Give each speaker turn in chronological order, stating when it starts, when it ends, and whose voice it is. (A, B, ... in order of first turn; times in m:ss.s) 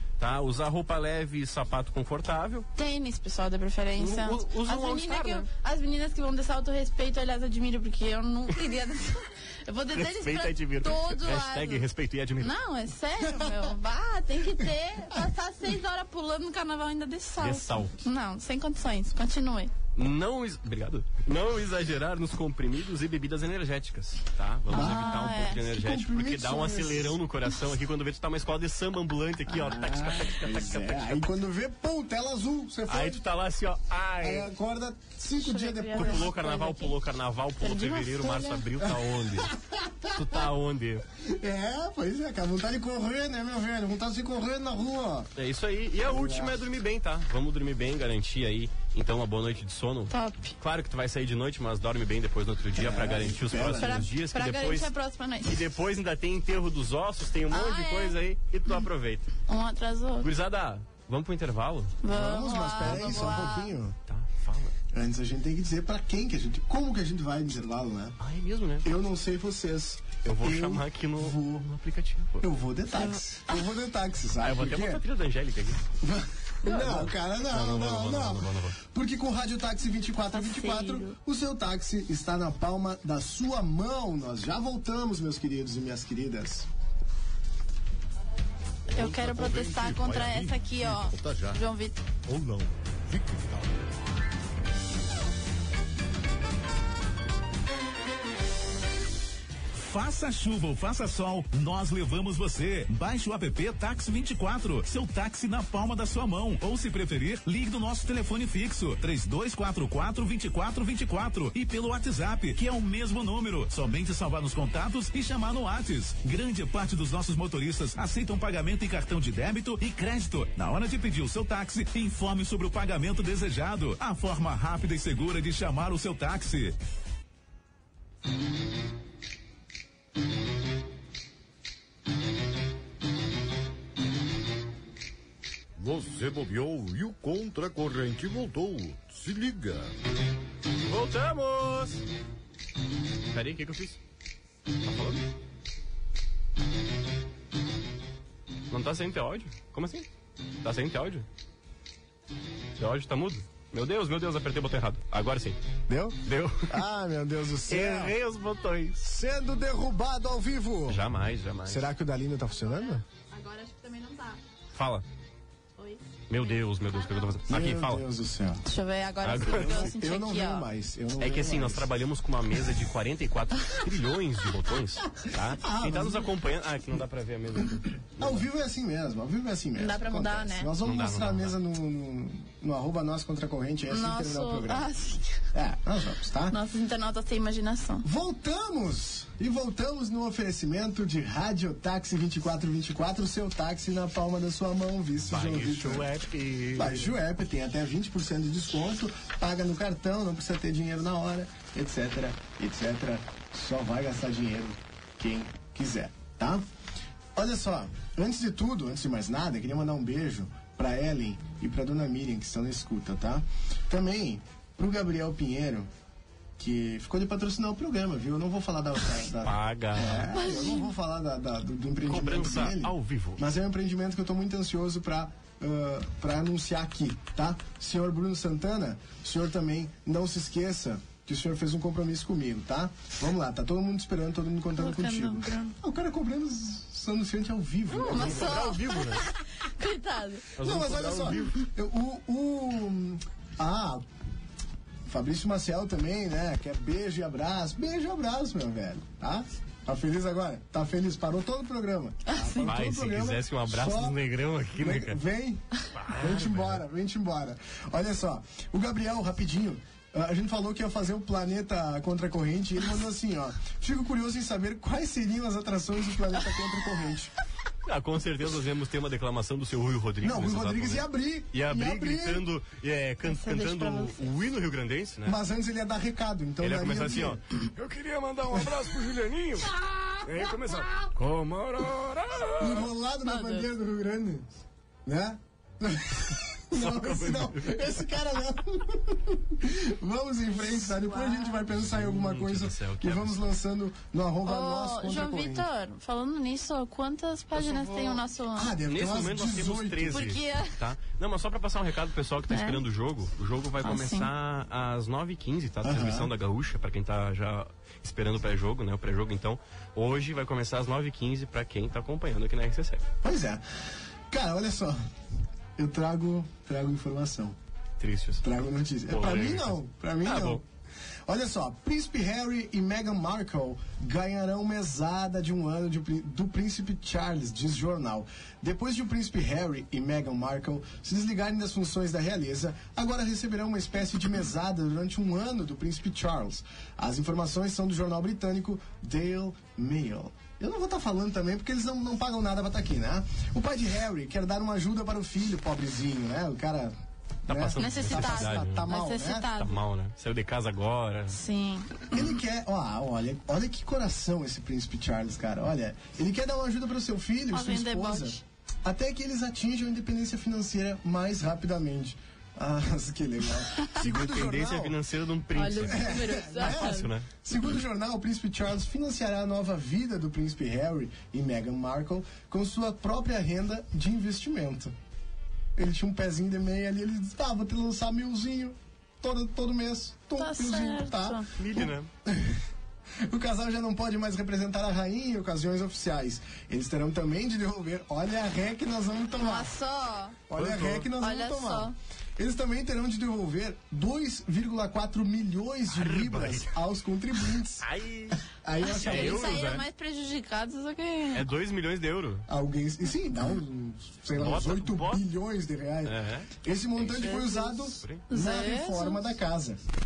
0:00.2-0:02.7 A
0:02.8-0:11.8 B
0:04.0-0:05.5 A
0:09.9-0:12.5 A
0:12.4-0:19.7 B
0:17.4-0:17.9 A
0:20.0-0:31.3 A
0:24.7-0:27.2 C
0:24.7-0:25.6 B
0:29.5-0:33.2 C
0:32.9-0:34.5 A
0:34.2-0:36.3 C
0:35.4-0:37.0 B
0:36.0-0:39.5 A
0:37.6-0:38.6 B
0:38.8-0:40.2 C
0:40.1-0:41.1 A
0:41.2-0:45.3 C
0:45.4-0:54.9 A
0:46.1-0:46.6 C
0:50.1-0:50.6 B
0:52.8-0:54.1 C
0:53.8-0:55.6 B
0:55.4-0:59.3 A
0:57.5-0:58.2 B
0:59.5-1:00.3 B
1:00.2-1:02.0 A
1:02.0-1:03.7 B
1:02.1-1:04.0 C
1:02.8-1:03.5 A
1:04.1-1:04.8 A
1:04.9-1:08.2 C
1:08.2-1:08.9 A
1:08.8-1:11.7 C
1:10.2-1:12.5 A
1:12.4-1:15.0 C
1:13.0-1:13.6 B
1:14.4-1:15.8 A
1:16.0-1:26.7 C
1:16.6-1:18.8 A
1:20.3-1:21.2 B
1:28.9-1:31.6 D
1:28.9-1:32.0 B
1:32.3-1:33.8 D
1:39.7-2:06.8 E
2:15.8-2:19.9 D
2:20.9-2:22.0 A
2:23.3-2:24.0 A
2:24.8-2:25.2 A
2:28.7-2:30.1 A
2:30.6-2:31.3 A
2:32.8-2:35.6 A
2:35.9-2:38.2 C
2:36.3-2:36.8 A
2:37.7-2:39.0 A
2:39.0-2:41.0 C
2:40.9-2:41.8 A
2:41.7-2:43.0 C
2:42.5-2:44.4 B
2:44.8-2:45.0 A
2:45.8-2:47.2 B
2:46.3-2:48.0 A
2:47.5-2:48.6 C
2:48.6-2:50.7 B
2:49.2-2:49.9 A
2:49.4-2:51.9 C
2:51.2-2:58.5 A
2:55.4-2:56.3 C
2:58.2-3:04.9 C
2:59.8-3:00.7 B
3:00.8-3:01.6 A
3:03.9-3:05.4 B
3:05.5-3:06.6 C
3:06.5-3:08.1 B
3:08.0-3:16.1 C
3:15.3-3:17.1 A
3:16.8-3:26.6 C
3:27.4-3:35.9 C
3:36.6-3:58.8 C
3:39.4-3:40.3 A
3:40.3-3:40.9 B
3:42.1-3:43.4 A
3:54.8-3:55.8 B
3:57.9-4:00.5 B
3:58.1-3:59.2 A
4:00.6-4:01.6 A
4:00.6-4:04.0 C
4:05.1-4:14.2 C
4:12.3-4:12.7 B
4:12.6-4:15.2 A
4:14.8-4:27.3 C
4:16.0-4:16.8 A
4:27.8-4:35.4 A
4:30.2-4:32.4 C
4:33.2-4:34.3 B
4:35.2-4:37.4 C
4:36.6-4:42.9 A
4:39.9-4:40.8 C
4:42.6-4:44.5 C
4:43.3-4:43.6 B
4:45.1-4:55.7 C
4:46.7-4:47.9 A
4:51.0-4:51.5 B
4:51.7-4:53.4 A
4:54.4-4:58.7 B
4:57.6-4:58.2 A
4:58.6-5:00.4 C
4:58.9-5:13.0 A
5:00.1-5:00.7 B
5:02.5-5:02.8 B
5:03.8-5:04.3 B
5:05.8-5:06.3 C
5:13.2-5:13.6 C
5:14.3-5:15.0 C
5:15.8-5:17.6 C
5:18.0-5:18.4 A
5:18.4-5:20.6 C
5:19.1-5:20.6 A
5:21.3-5:47.0 C
5:47.5-5:49.5 C
5:47.5-5:48.9 A
5:47.8-5:49.8 B
5:49.5-5:51.4 A
5:51.3-5:52.2 B
5:52.1-6:05.0 C
5:57.5-5:58.4 B
6:04.0-6:07.3 A
6:05.6-6:07.1 B
6:05.8-6:15.0 C
6:15.8-6:22.6 C
6:20.4-6:21.5 B
6:21.6-6:22.1 A
6:23.2-6:29.7 C
6:29.4-6:30.4 B
6:30.5-6:39.6 C
6:30.6-6:31.1 A
6:31.2-6:32.0 B
6:35.9-6:36.8 A
6:37.8-6:38.4 A
6:38.9-6:39.8 A
6:39.0-6:41.5 B
6:41.3-6:42.5 A
6:42.5-6:49.8 C
6:44.4-6:45.2 A
6:46.0-6:48.2 A
6:47.2-6:49.3 B